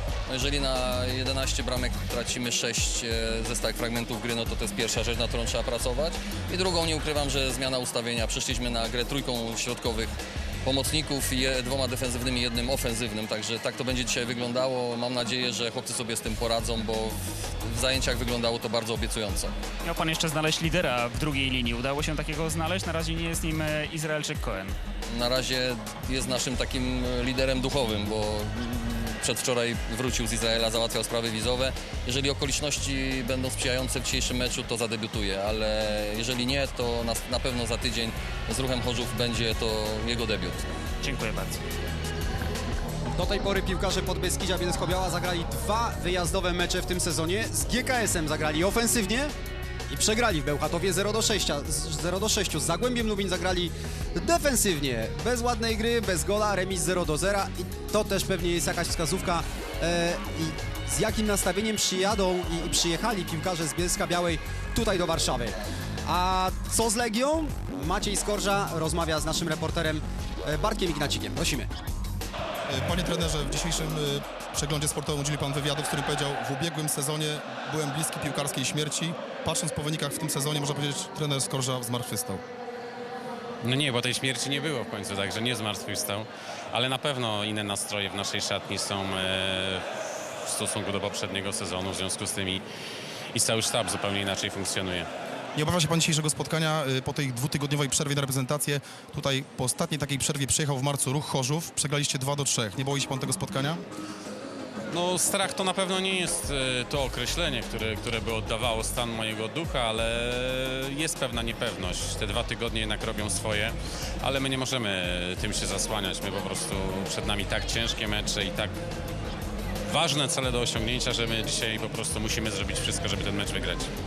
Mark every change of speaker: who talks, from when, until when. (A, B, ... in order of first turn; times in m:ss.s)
0:00.3-0:19.6 A
0:19.8-0:24.8 B
0:25.1-0:40.6 A
0:41.0-0:41.6 B
0:43.1-0:49.3 C
0:49.9-1:11.7 C
1:12.7-1:22.4 D
1:23.6-1:29.8 E
1:30.4-1:32.6 E
1:33.3-1:35.1 E
1:35.6-1:43.8 D
1:44.9-1:58.7 E
1:59.9-2:03.9 E